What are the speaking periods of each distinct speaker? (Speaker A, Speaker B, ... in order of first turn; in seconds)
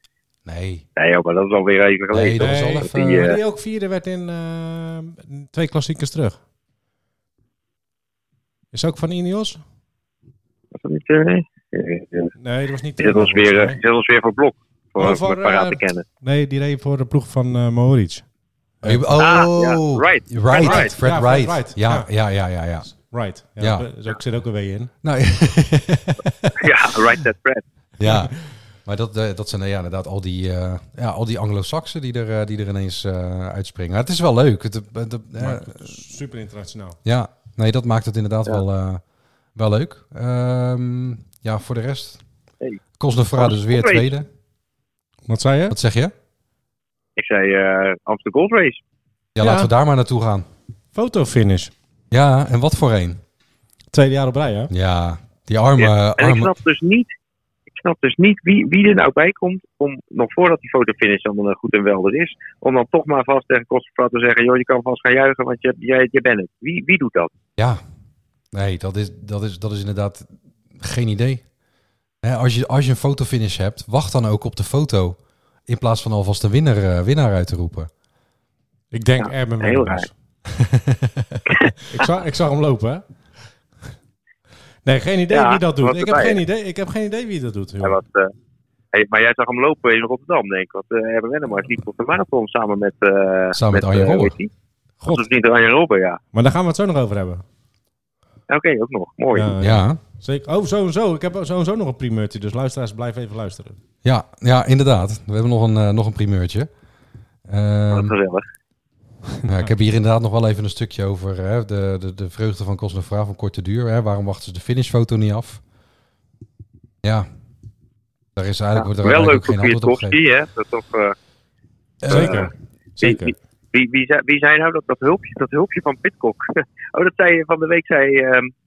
Speaker A: 0.4-0.8, 2.1-3.2, 18.8-22.9, 23.6-23.9, 25.0-26.2, 28.0-36.0, 37.0-39.0, 39.5-42.2, 43.0-44.3, 45.7-46.1, 49.3-50.5, 52.1-53.2, 54.7-56.5, 68.5-71.4, 72.2-77.9, 80.6-81.1, 93.5-94.3, 99.6-100.0, 104.0-106.7, 107.5-108.2, 109.4-115.6, 118.3-120.1, 122.0-122.4
Speaker B: 0.9-3.4, 10.7-12.3, 13.0-16.0, 19.2-20.9, 26.6-27.6, 43.4-44.1, 47.2-48.8, 55.8-57.1, 57.7-67.3, 79.6-80.1, 85.3-86.4, 87.8-88.3, 88.9-94.5, 95.1-96.2, 98.5-99.6, 107.9-108.4, 118.8-121.1, 122.1-122.5, 123.0-128.5
Speaker C: 2.4-6.4, 8.7-9.6, 12.4-13.8, 15.0-18.2, 20.6-22.1, 22.9-24.9, 26.2-26.7, 28.0-28.3, 35.4-37.0, 45.3-45.8, 49.4-49.7, 50.9-51.7, 53.9-54.7, 78.9-80.1, 81.9-83.0, 84.8-88.0, 95.0-95.2, 96.3-97.4, 99.3-103.8, 122.1-123.3